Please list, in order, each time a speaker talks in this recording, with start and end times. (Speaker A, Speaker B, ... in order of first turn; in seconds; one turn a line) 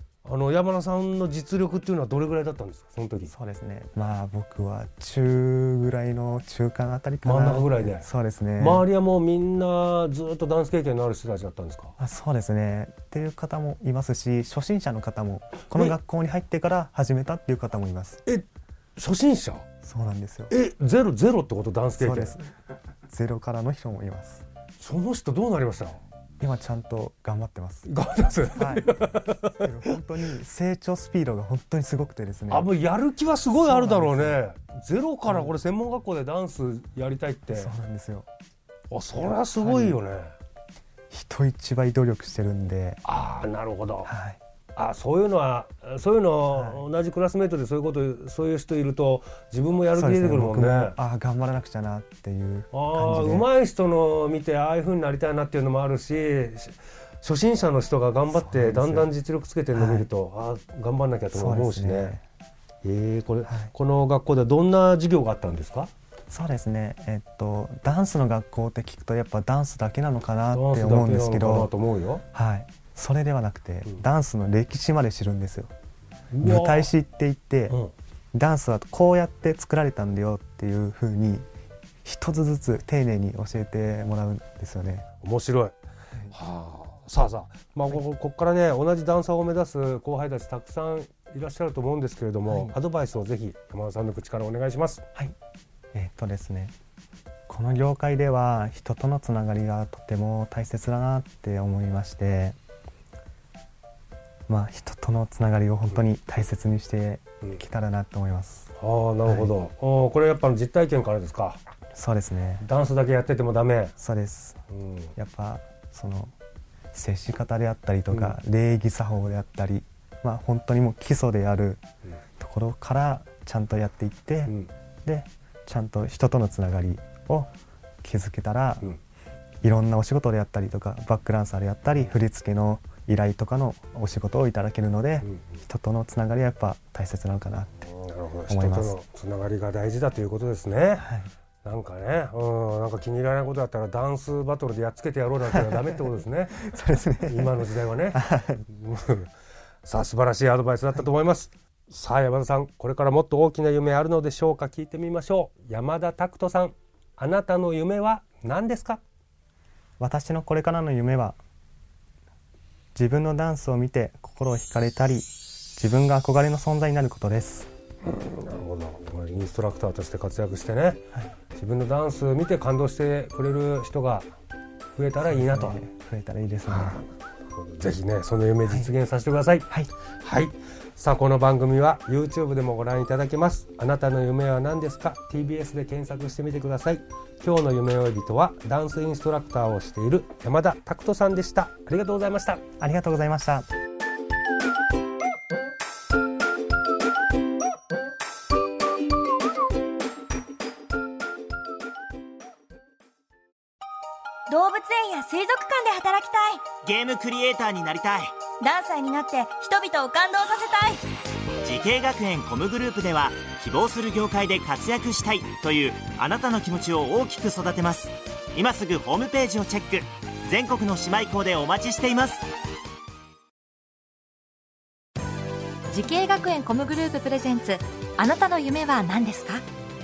Speaker A: 0.2-3.3
Speaker B: 3.3-8.8
Speaker A: 7.2-11.9
Speaker B: 12.0-18.2
Speaker A: 18.2-19.6
Speaker B: 19.8-20.5
Speaker A: 20.5-22.4
Speaker B: 22.0-22.4
Speaker B: 23.1-24.4
Speaker A: 24.8-26.0
Speaker B: 26.4-27.9
Speaker A: 27.9-30.0
Speaker B: 28.5-32.7
Speaker A: 32.5-37.7
Speaker B: 33.5-34.4
Speaker B: 35.2-35.6
Speaker B: 37.5-38.3
Speaker A: 38.9-40.3
Speaker B: 39.5-40.0
Speaker B: 41.1-43.0
Speaker A: 43.0-44.1
Speaker B: 44.0-44.4
Speaker A: 44.8-51.0
Speaker B: 46.5-46.9
Speaker B: 49.9-53.5
Speaker A: 52.7-62.1
Speaker B: 58.3-59.1
Speaker B: 59.7-60.1
Speaker B: 61.3-62.2
Speaker A: 62.8-65.9
Speaker B: 63.4-63.7
Speaker B: 66.3-71.7
Speaker A: 70.5-72.2
Speaker B: 72.3-75.7
Speaker A: 76.3-76.9
Speaker B: 76.4-77.8
Speaker B: 78.3-81.5
Speaker B: 82.0-85.1
Speaker A: 85.2-85.7
Speaker A: 86.3-95.0
Speaker B: 92.5-92.7
Speaker B: 95.9-96.7
Speaker B: 97.5-102.6
Speaker B: 104.5-108.7
Speaker A: 108.8-111.6
Speaker B: 109.2-109.5
Speaker B: 111.9-112.7
Speaker A: 112.6-114.0
Speaker B: 114.0-114.6
Speaker A: 114.7-115.1
Speaker B: 115.2-116.3
Speaker B: 116.9-121.8
Speaker A: 118.1-118.4
Speaker B: 122.4-127.5
Speaker B: 128.0-128.9
Speaker B: 129.6-137.9
Speaker A: 137.8-141.1
Speaker B: 138.5-139.0
Speaker B: 141.0-141.3
Speaker A: 141.6-149.3
Speaker B: 145.5-145.9
Speaker B: 146.5-148.7
Speaker A: 149.8-159.0
Speaker B: 160.0-161.4
Speaker B: 162.9-167.7
Speaker A: 168.0-174.3
Speaker A: 174.9-175.8
Speaker B: 175.3-177.0
Speaker A: 176.7-179.7
Speaker B: 178.7-178.9
Speaker A: 180.2-192.6
Speaker B: 192.8-193.7
Speaker C: 204.5-206.7
Speaker D: 206.8-208.3
Speaker C: 208.6-211.0
Speaker D: 211.6-222.4
Speaker E: 225.9-229.6